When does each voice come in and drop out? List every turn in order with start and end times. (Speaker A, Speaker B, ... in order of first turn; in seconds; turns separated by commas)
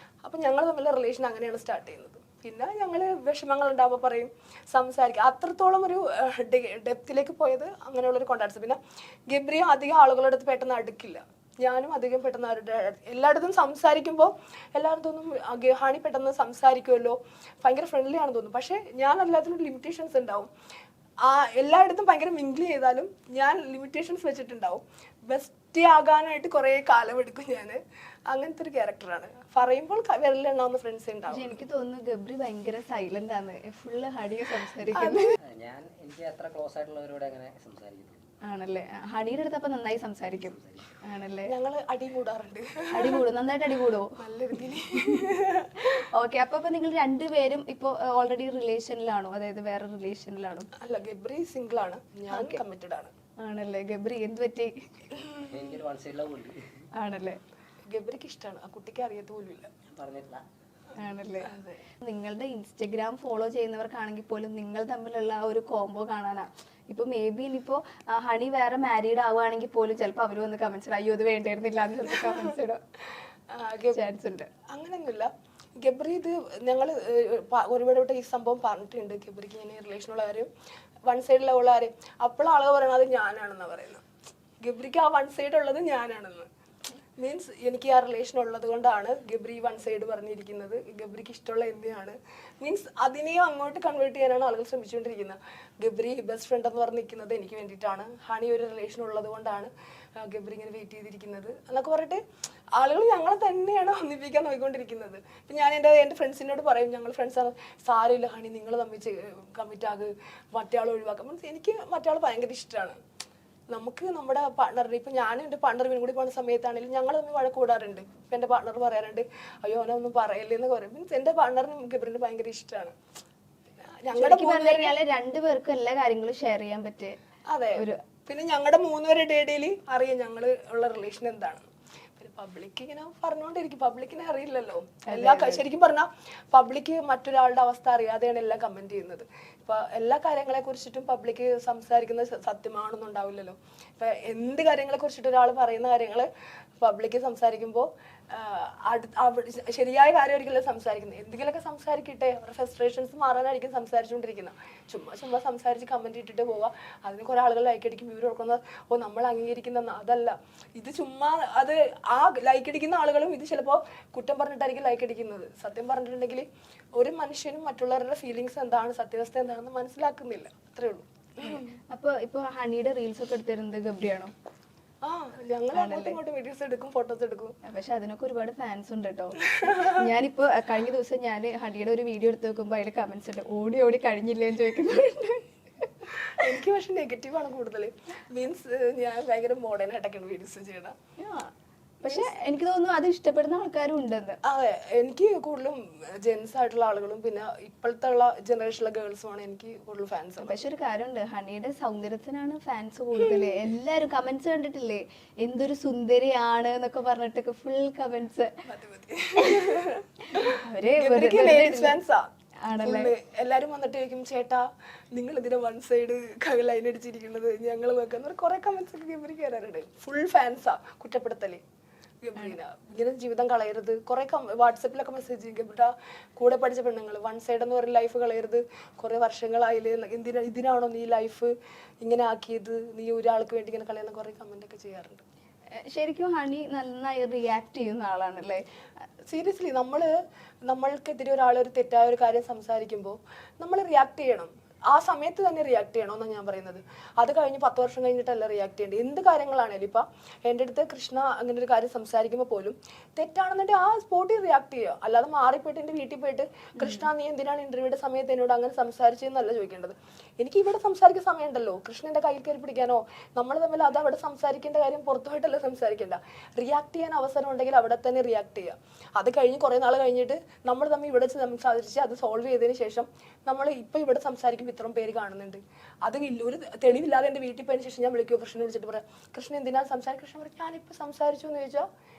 Speaker A: 0.2-20.5, Speaker A: 21.2-31.6, Speaker B: 31.3-35.3, Speaker A: 34.9-35.3, Speaker C: 35.4-38.2, Speaker B: 38.5-41.5, Speaker C: 40.3-40.8, Speaker A: 41.5-43.2, Speaker B: 42.9-44.1, Speaker A: 44.2-45.9, Speaker B: 45.8-50.7, Speaker A: 50.8-53.1, Speaker B: 52.3-52.6, Speaker B: 53.4-54.7, Speaker C: 55.4-56.8, Speaker B: 57.0-57.4, Speaker A: 57.8-59.7, Speaker C: 59.9-60.4, Speaker B: 60.9-61.5, Speaker A: 61.4-61.8, Speaker B: 62.0-72.8, Speaker A: 72.0-72.5, Speaker A: 73.5-74.0, Speaker B: 73.9-74.5, Speaker A: 74.7-80.5, Speaker A: 81.1-84.0, Speaker A: 84.6-86.5, Speaker A: 87.2-102.2, Speaker A: 102.8-113.0, Speaker A: 113.7-122.9, Speaker A: 124.0-125.0, Speaker B: 124.1-127.1, Speaker A: 127.5-171.7, Speaker B: 135.1-135.6, Speaker B: 171.5-174.3, Speaker A: 175.0-177.6, Speaker B: 175.7-176.2, Speaker B: 177.6-185.9, Speaker A: 179.5-179.9, Speaker A: 186.3-190.9, Speaker B: 191.2-191.5, Speaker B: 192.0-194.4, Speaker A: 192.0-192.3, Speaker A: 194.4-200.6, Speaker B: 200.4-208.5, Speaker A: 203.2-203.6, Speaker A: 208.7-212.2, Speaker B: 209.4-209.7, Speaker B: 210.3-212.0, Speaker B: 212.6-213.1, Speaker A: 212.8-221.6, Speaker A: 222.2-235.2, Speaker B: 235.7-238.6, Speaker A: 239.3-240.1, Speaker A: 240.7-281.9